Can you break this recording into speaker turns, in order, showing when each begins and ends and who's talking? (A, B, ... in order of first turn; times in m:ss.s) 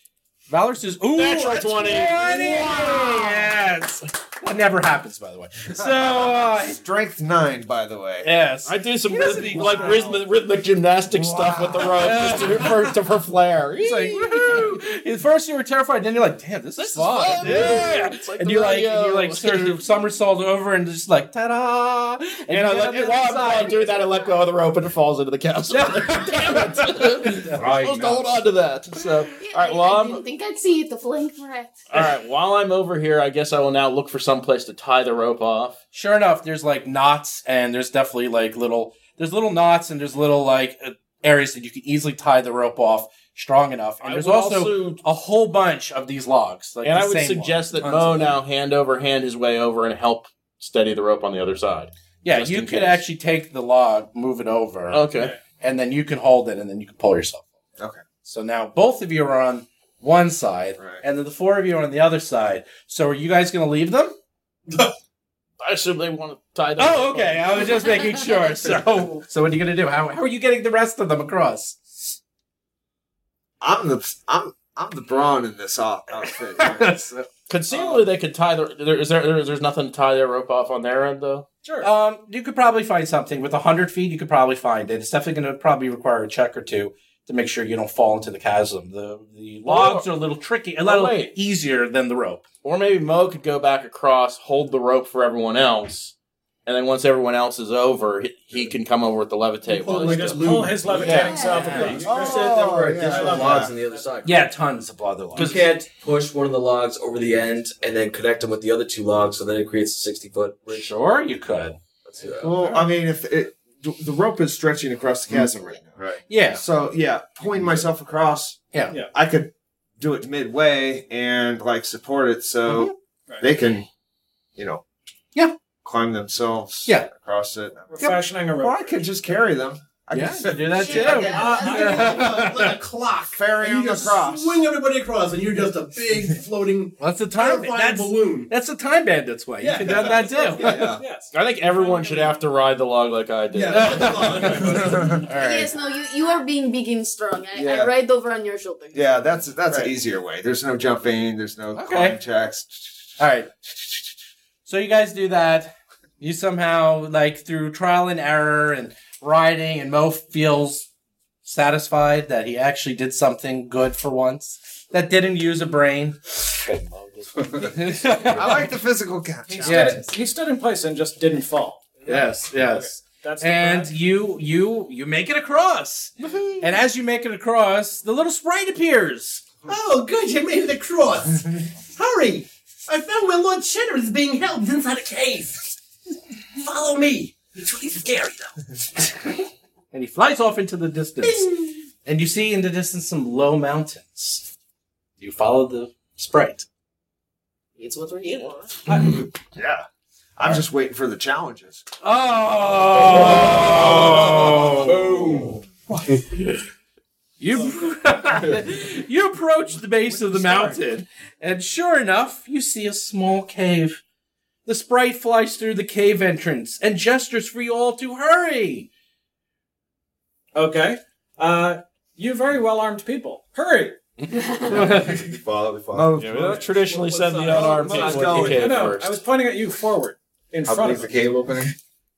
0:00.5-0:06.8 A
0:01.2-0:02.6 B
0:02.6-0:03.4 C
0:06.0-0:08.3 D
0:08.2-0:10.2 A
0:08.6-0:14.8 B
0:09.5-0:10.2 D
0:11.1-0:12.3 D
0:12.0-0:13.0 A
0:13.8-0:23.8 A
0:16.8-0:19.8 B
0:22.5-0:30.2 B
0:25.7-0:27.7 A
0:27.5-0:28.5 E
0:29.4-0:31.9 C
0:31.9-0:35.8 B
0:35.9-0:48.3 A
0:44.0-0:45.0 B
0:46.8-0:53.0 B
0:52.2-0:55.1 A
0:54.9-0:55.3 B
0:55.6-0:57.5 A
0:58.2-1:04.2 A
1:00.8-1:01.0 D
1:05.6-1:07.9 B
1:06.8-1:11.8 A
1:13.6-1:17.1 D
1:16.6-1:17.9 A
1:17.5-1:21.5 B
1:21.6-1:21.9 F
1:21.8-1:32.4 A
1:29.7-1:30.1 B
1:30.8-1:31.3 B
1:32.6-1:36.1 B
1:36.7-1:41.3 B
1:39.7-1:41.3 G
1:40.0-1:44.1 F
1:41.1-1:42.0 A
1:41.2-1:41.9 C
1:42.0-1:43.7 D
1:42.1-1:44.4 H
1:44.2-1:45.6 A
1:45.4-1:45.7 B
1:45.4-1:50.9 H
1:50.7-1:51.8 A
1:52.1-1:52.7 H
1:52.4-2:03.9 D
1:56.3-1:56.6 A
2:02.7-2:03.0 A
2:04.6-2:04.8 D
2:05.8-2:11.3 D
2:07.9-2:09.1 F
2:10.1-2:12.8 A
2:10.8-2:11.8 C
2:11.0-2:18.5 G
2:11.3-2:12.3 F
2:13.3-2:14.6 D
2:17.0-2:20.9 A
2:19.6-2:20.8 G
2:20.4-2:22.4 F
2:20.6-2:21.0 D
2:21.3-2:24.7 B
2:23.5-2:25.2 G
2:23.7-2:25.7 A
2:25.3-2:29.4 C
2:27.5-2:27.9 D
2:28.9-2:33.0 D
2:31.8-2:32.2 A
2:33.2-2:33.5 A
2:34.7-2:40.9 A
2:41.4-2:48.7 A
2:47.4-2:47.9 E
2:48.3-2:50.1 D
2:49.5-2:53.9 F
2:49.6-2:50.1 A
2:52.1-2:59.5 A
2:59.6-3:05.7 G
3:06.6-3:08.6 G
3:09.9-3:11.5 A
3:11.2-3:11.8 G
3:12.0-3:14.5 A
3:15.2-3:16.7 A
3:17.8-3:18.7 C
3:18.9-3:19.2 F
3:19.6-3:19.8 D
3:20.4-3:21.8 D
3:22.0-3:25.2 A
3:23.2-3:25.6 E
3:27.4-3:34.0 A
3:30.1-3:30.8 D
3:34.7-3:38.9 A
3:40.6-3:44.0 F
3:44.7-3:45.2 A
3:44.7-3:46.2 E
3:45.9-3:46.8 D
3:46.2-3:49.2 B
3:46.4-3:51.4 F
3:47.4-3:48.9 D
3:50.6-3:51.7 E